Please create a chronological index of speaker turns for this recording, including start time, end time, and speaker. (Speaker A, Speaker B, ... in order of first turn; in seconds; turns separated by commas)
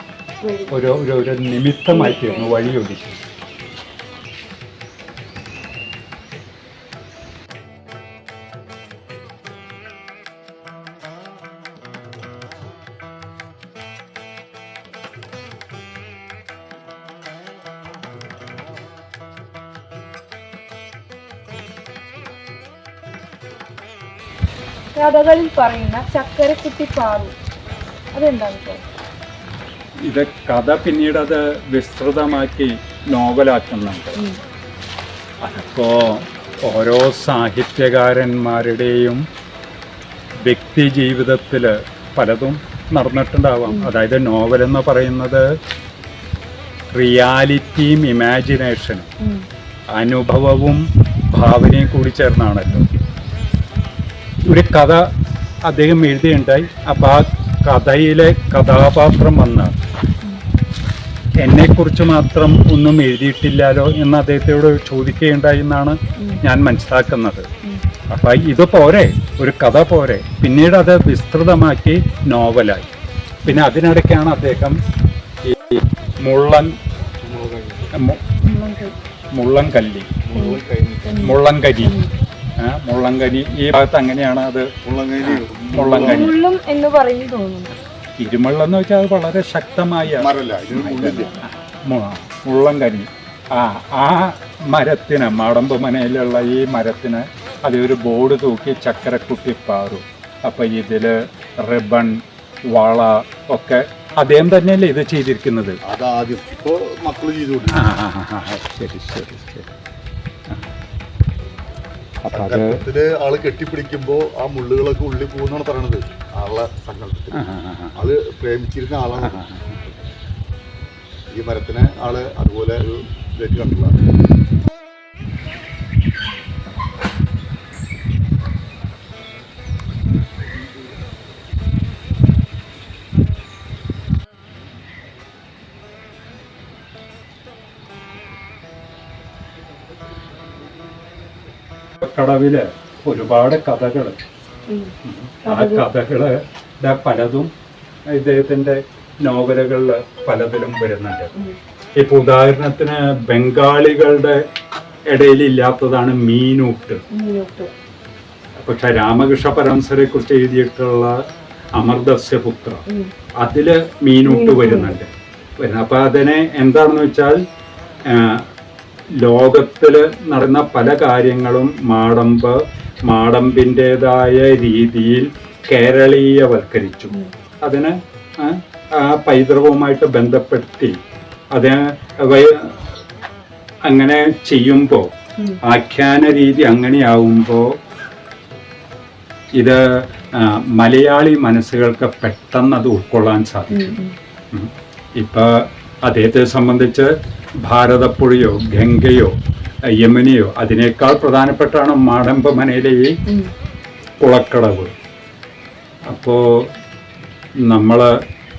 Speaker A: 0.4-0.8, Speaker B: 0.7-3.2, Speaker A: 1.9-2.5, Speaker A: 24.9-27.3, Speaker A: 28.1-28.8, Speaker B: 30.0-34.2, Speaker B: 35.4-39.2, Speaker B: 40.5-45.5, Speaker A: 43.7-43.9, Speaker B: 46.9-49.1, Speaker B: 49.9-52.9, Speaker B: 54.5-55.1, Speaker B: 55.6-59.7, Speaker B: 61.4-67.5, Speaker A: 66.2-66.4, Speaker B: 68.1-72.9, Speaker B: 73.4-74.8, Speaker B: 75.4-76.8, Speaker C: 77.2-77.9, Speaker B: 77.9-78.2, Speaker A: 78.4-79.0, Speaker B: 79.3-80.1, Speaker C: 80.2-81.2, Speaker A: 80.3-82.1, Speaker B: 81.2-82.0, Speaker B: 82.6-84.7, Speaker C: 84.8-86.3, Speaker B: 85.2-86.3, Speaker A: 86.0-87.8, Speaker B: 88.2-105.8, Speaker C: 90.2-91.3, Speaker C: 105.8-107.9, Speaker B: 107.7-109.7, Speaker B: 110.5-110.7, Speaker B: 112.2-112.8, Speaker C: 112.3-117.4, Speaker B: 117.3-118.0, Speaker C: 118.0-119.4, Speaker B: 119.2-119.8, Speaker C: 121.3-124.0, Speaker B: 142.0-144.2, Speaker A: 144.7-145.9, Speaker B: 145.0-147.5, Speaker B: 148.1-151.3, Speaker B: 152.0-154.4, Speaker B: 155.1-157.0, Speaker A: 157.1-157.7, Speaker B: 158.6-161.2, Speaker B: 161.7-162.8, Speaker B: 163.4-167.4, Speaker A: 164.2-165.0, Speaker B: 168.0-168.5, Speaker B: 169.1-181.0, Speaker B: 181.5-182.9, Speaker B: 183.9-187.8, Speaker B: 189.6-194.0, Speaker A: 193.7-194.2, Speaker B: 194.5-203.2, Speaker B: 204.2-204.9, Speaker B: 206.1-206.7, Speaker B: 207.6-208.2